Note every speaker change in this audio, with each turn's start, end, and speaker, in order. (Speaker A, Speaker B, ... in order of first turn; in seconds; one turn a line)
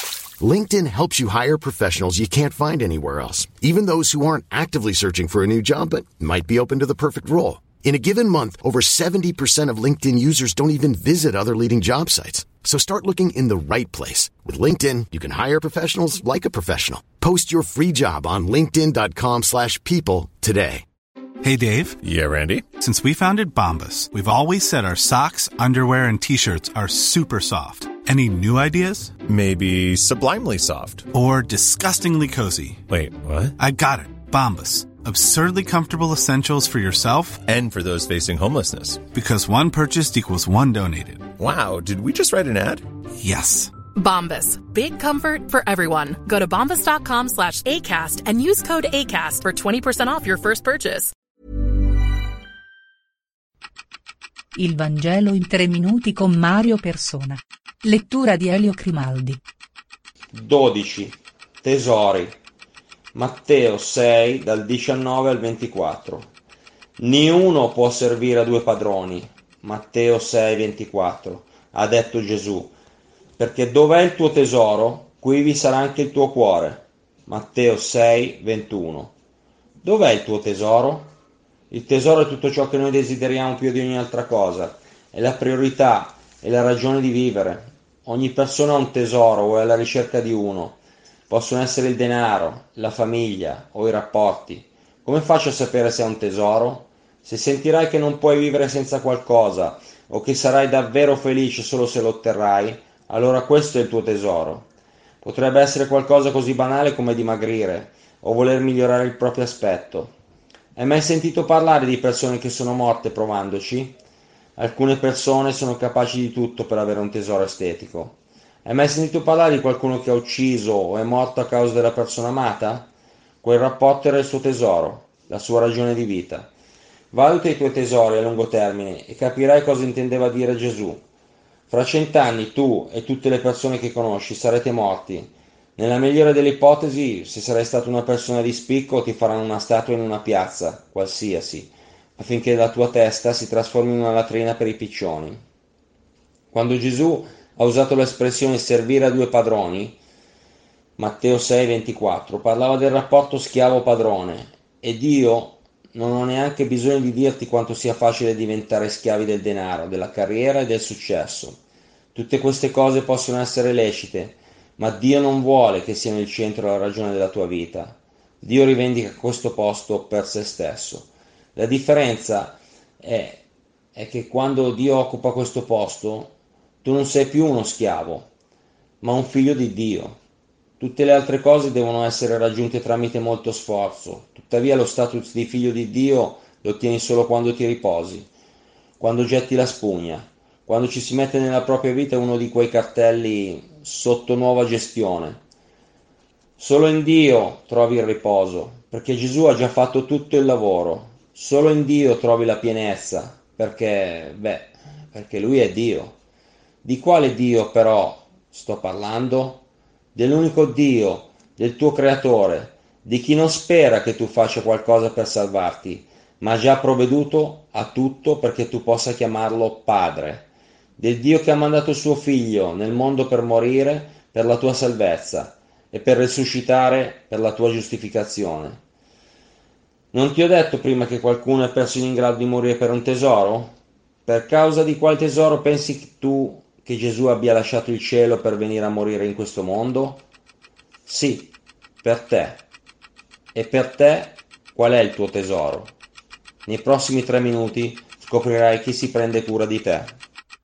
Speaker A: 0.4-20.8
Speaker B: 21.4-22.0
Speaker C: 22.0-22.7
Speaker B: 22.7-29.2
Speaker C: 29.3-31.1
Speaker B: 31.1-32.8
Speaker C: 32.9-33.5
Speaker B: 33.6-37.4
Speaker C: 37.5-39.0
Speaker B: 39.1-41.3
Speaker C: 41.4-42.9
Speaker B: 43.2-43.7
Speaker D: 44.0-51.1
Speaker E: 54.6-59.4
Speaker F: 60.3-62.4
Speaker F: 63.1-66.3
Speaker F: 67.0-72.7
Speaker F: 73.4-79.1
Speaker F: 79.8-81.1
Speaker F: 81.7-104.7
Speaker F: 105.2-110.1
Speaker F: 110.8-114.0
Speaker F: 114.6-122.9
Speaker F: 123.4-126.5
Speaker F: 127.1-131.0
Speaker F: 131.7-145.4
Speaker F: 146.5-150.0
Speaker F: 151.0-161.6
Speaker F: 162.1-173.4
Speaker F: 173.9-178.3
Speaker F: 179.0-180.2
Speaker F: 180.8-188.3
Speaker F: 189.0-195.4
Speaker F: 196.6-206.2
Speaker F: 206.8-209.6
Speaker F: 210.2-220.5
Speaker F: 221.0-228.8
Speaker F: 230.1-240.2
Speaker F: 241.1-242.7
Speaker F: 243.5-245.9
Speaker F: 246.7-250.2